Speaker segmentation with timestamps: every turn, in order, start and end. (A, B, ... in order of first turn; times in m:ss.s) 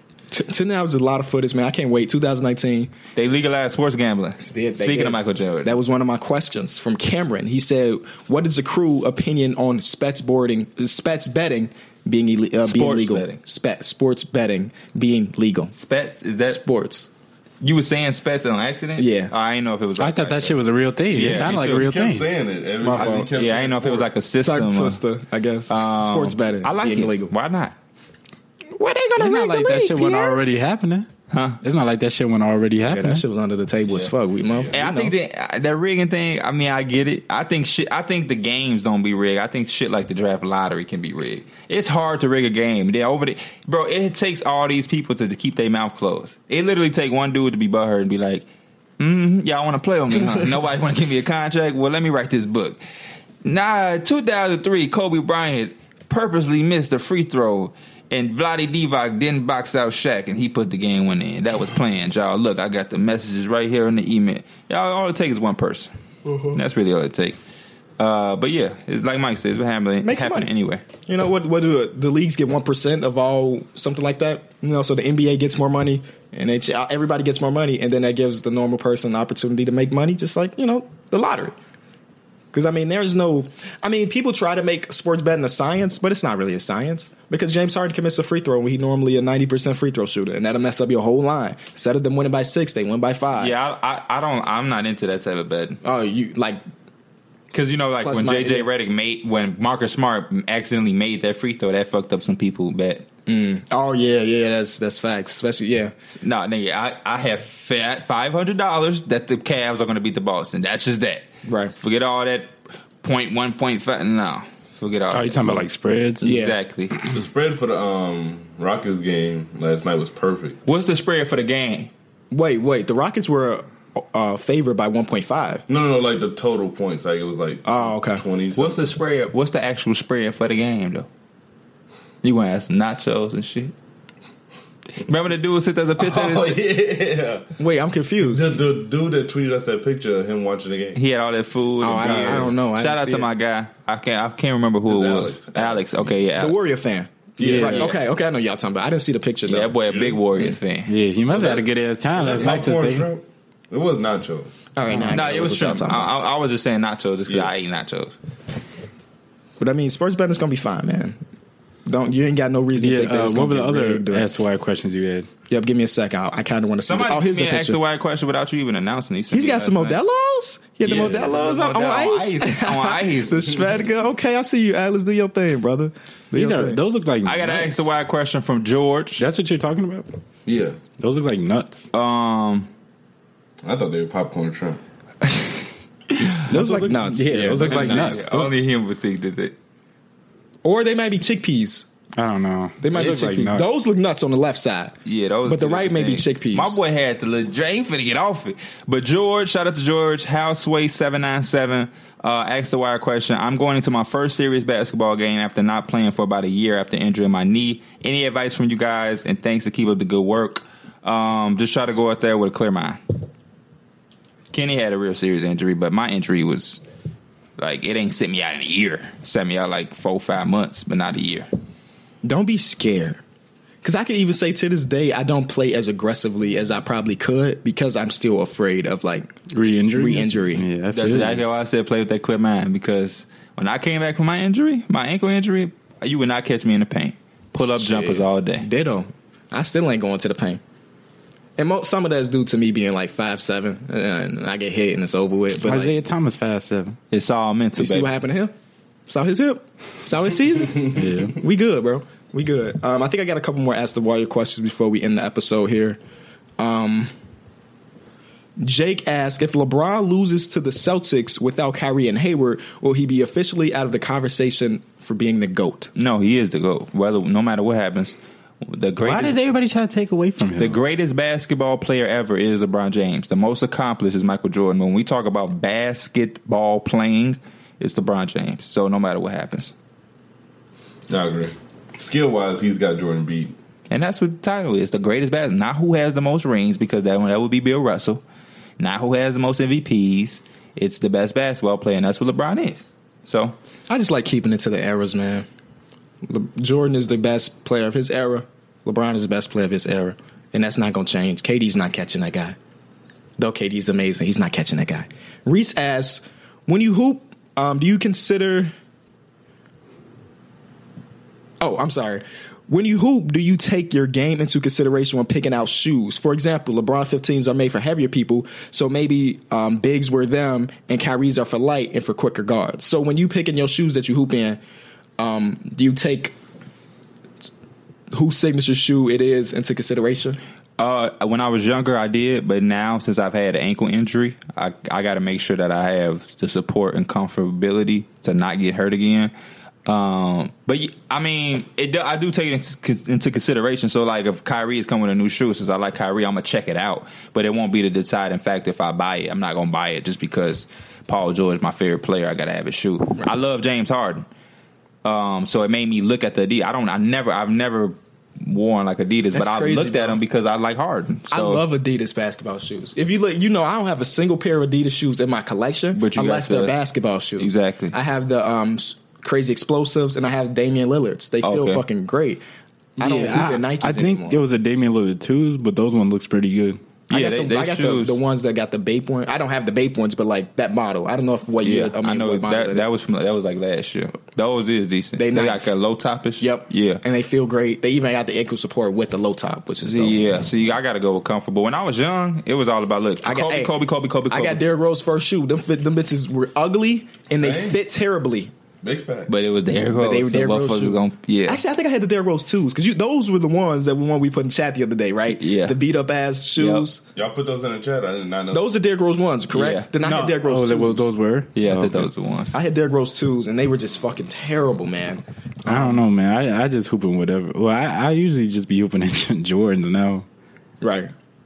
0:00.3-0:02.9 A
0:03.2-0:05.8 B
0:04.4-0:15.7 A
0:12.6-0:13.4 B
0:15.7-0:16.6 B
0:16.4-0:17.1 A
0:17.6-0:20.6 B
0:19.0-0:19.3 A
0:20.0-0:22.3 C
0:21.1-0:21.9 B
0:21.1-0:24.2 D
0:22.8-0:23.3 A
0:23.0-0:25.0 B
0:24.4-0:27.3 A
0:25.7-0:27.7 B
0:28.7-0:30.4 A
0:29.2-0:31.1 C
0:31.3-0:31.6 B
0:31.6-0:33.2 C
0:32.8-0:35.1 A
0:33.9-0:34.8 D
0:34.7-0:48.4 B
0:49.0-0:52.8 B
0:53.4-1:05.9 B
1:06.3-1:06.6 A
1:06.5-1:07.4 B
1:08.0-1:10.8 B
1:10.0-1:10.5 A
1:11.0-1:21.6 A
1:22.5-1:33.5 A
1:33.3-1:35.8 B
1:35.8-1:36.6 A
1:37.5-1:43.1 B
1:38.0-1:38.7 A
1:43.3-1:46.0 A
1:46.2-1:55.7 B
1:51.4-1:51.8 A
1:55.1-1:56.4 C
1:56.2-1:56.6 A
1:56.2-1:57.0 B
1:57.0-2:00.6 D
2:00.6-2:01.9 B
2:02.3-2:05.6 A
2:05.7-2:08.8 D
2:07.6-2:08.2 A
2:08.6-2:11.1 B
2:12.2-2:13.7 B
2:15.0-2:16.6 B
2:16.0-2:17.5 D
2:17.6-2:18.6 A
2:18.2-2:21.0 D
2:21.0-2:26.6 B
2:21.8-2:23.3 A
2:22.1-2:22.5 D
2:24.9-2:26.2 D
2:26.4-2:29.7 A
2:27.4-2:27.9 C
2:27.4-2:28.0 B
2:29.5-2:30.9 B
2:29.9-2:30.2 D
2:30.9-2:33.1 C
2:31.3-2:34.7 D
2:34.8-2:36.1 A
2:34.9-2:35.2 C
2:35.1-2:38.2 B
2:39.6-2:41.2 A
2:41.9-2:44.3 A
2:42.8-2:45.3 C
2:45.5-2:47.8 A
2:46.9-2:50.0 B
2:49.3-2:56.8 A
2:50.8-2:53.6 B
2:50.8-2:51.3 C
2:56.3-2:57.9 C
2:57.2-2:59.2 B
2:59.2-3:00.1 C
3:00.5-3:00.8 D
3:01.0-3:01.9 C
3:01.9-3:02.7 B
3:03.6-3:04.8 D
3:06.4-3:08.5 A
3:06.5-3:08.5 C
3:07.6-3:09.5 B
3:10.6-3:11.9 A
3:12.2-3:13.7 C
3:12.8-3:15.0 A
3:15.0-3:33.0 B
3:15.5-3:16.8 A
3:34.5-3:36.8 B
3:37.6-3:41.5 B
3:42.2-3:43.2 A
3:43.8-3:49.3 A
3:49.5-3:51.4 C
3:49.9-3:50.7 A
3:50.9-3:58.7 B
3:57.6-4:00.6 A
4:01.6-4:06.0 A
4:05.6-4:07.0 C
4:07.1-4:08.1 B
4:07.8-4:08.5 A
4:09.1-4:16.0 A
4:10.9-4:11.4 C
4:16.6-4:17.1 A
4:18.6-4:25.9 A
4:26.0-4:29.4 B
4:29.0-4:30.8 C
4:30.6-4:39.7 B
4:41.1-4:43.5 D
4:43.9-4:48.2 B
4:48.8-4:53.6 B
4:53.9-4:55.5 A
4:56.2-5:02.6 A
5:03.4-5:08.7 A
5:11.6-5:24.6 A
5:25.2-5:26.4 A
5:28.1-5:30.4 A
5:30.8-5:39.3 B
5:39.9-5:54.2 B
5:55.0-6:01.6 B
5:59.3-6:00.2 A
6:01.3-6:12.4 A
6:05.9-6:06.8 B
6:07.4-6:08.0 B
6:11.4-6:11.8 B
6:13.0-6:16.8 C
6:13.0-6:14.4 A
6:17.1-6:18.2 B
6:17.1-6:22.9 A
6:21.6-6:27.0 B
6:25.2-6:25.8 A
6:26.4-6:30.3 A
6:29.8-6:34.6 B
6:33.2-6:33.7 A
6:34.3-6:38.5 A
6:37.3-6:37.8 D
6:38.8-6:39.4 D
6:39.3-6:41.6 B
6:40.0-6:47.0 A
6:45.3-6:45.8 B
6:46.6-6:46.9 B
6:47.2-6:48.6 D
6:48.5-6:51.1 A
6:49.5-6:50.2 B
6:50.0-6:52.1 C
6:51.6-6:52.6 B
6:52.5-6:56.0 A
6:55.6-7:00.3 C
7:00.8-7:01.1 A